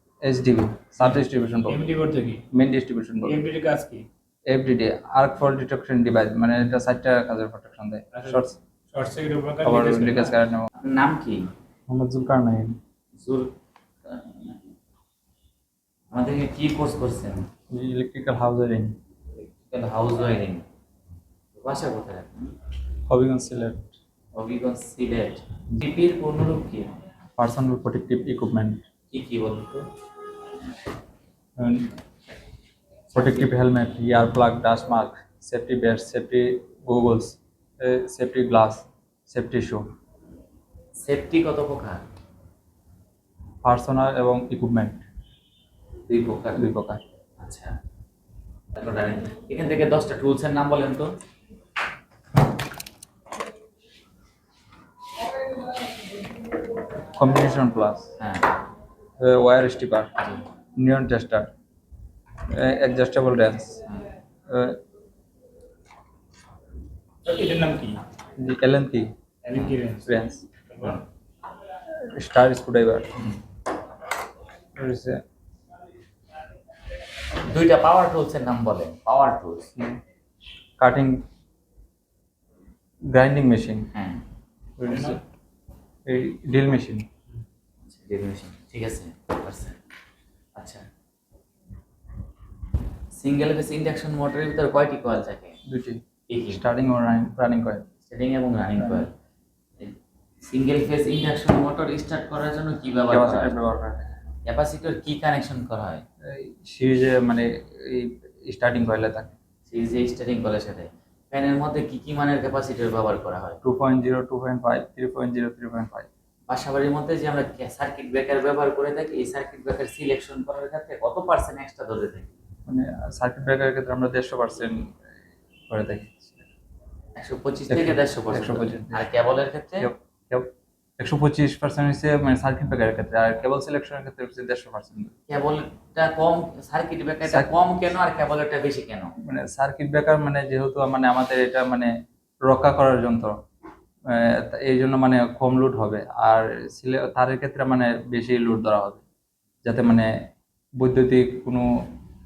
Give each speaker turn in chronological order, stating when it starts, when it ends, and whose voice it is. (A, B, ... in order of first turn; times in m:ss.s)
0:00.2-0:01.8 A
0:01.0-0:02.5 B
0:02.5-0:03.4 A
0:03.2-0:04.1 B
0:04.5-0:08.6 A
0:08.1-0:10.4 B
0:09.6-0:10.7 A
0:10.8-0:11.5 C
0:11.9-0:12.8 A
0:13.2-0:13.5 C
0:14.0-0:14.6 C
0:16.1-0:17.5 C
0:17.7-0:19.0 A
0:19.7-0:20.6 C
0:21.6-0:22.5 C
0:23.1-0:24.0 A
0:24.4-0:27.0 C
0:27.4-0:28.8 A
0:29.1-0:29.9 C
0:31.6-0:31.9 A
0:33.1-0:33.5 C
0:33.1-0:39.8 A
0:41.0-0:42.0 C
0:43.6-0:45.0 A
0:46.1-0:46.6 C
0:46.6-0:47.0 A
0:47.4-0:47.7 C
0:48.8-0:51.1 C
0:57.2-0:58.1 A
0:58.2-0:58.5 C
0:59.2-1:00.1 A
1:00.8-1:01.5 A
1:02.5-1:03.8 A
1:04.5-1:04.8 A
1:07.2-1:08.0 B
1:08.4-1:09.1 A
1:09.4-1:11.0 B
1:10.1-1:10.4 A
1:12.1-1:13.3 A
1:14.8-1:15.2 A
1:17.4-1:19.7 C
1:20.8-1:21.2 A
1:23.1-1:23.9 A
1:23.9-1:24.2 C
1:24.8-1:25.2 A
1:24.8-1:25.2 B
1:26.1-1:27.1 A
1:27.9-1:29.8 C
1:30.6-1:30.8 C
1:33.2-1:35.6 C
1:35.7-1:37.9 A
1:36.3-1:36.6 C
1:38.1-1:39.1 C
1:38.8-1:39.0 A
1:39.8-1:43.6 C
1:43.1-1:44.1 A
1:44.5-1:46.0 C
1:46.3-1:49.3 A
1:49.7-1:53.6 C
1:53.6-1:56.1 A
1:56.5-2:02.3 C
2:02.7-2:05.0 A
2:05.7-2:06.5 A
2:07.2-2:09.9 C
2:07.7-2:09.1 A
2:09.8-2:15.1 A
2:15.3-2:19.1 C
2:19.2-2:21.9 A
2:22.4-2:23.4 A
2:24.1-2:29.0 A
2:29.6-2:30.1 A
2:30.8-2:31.7 A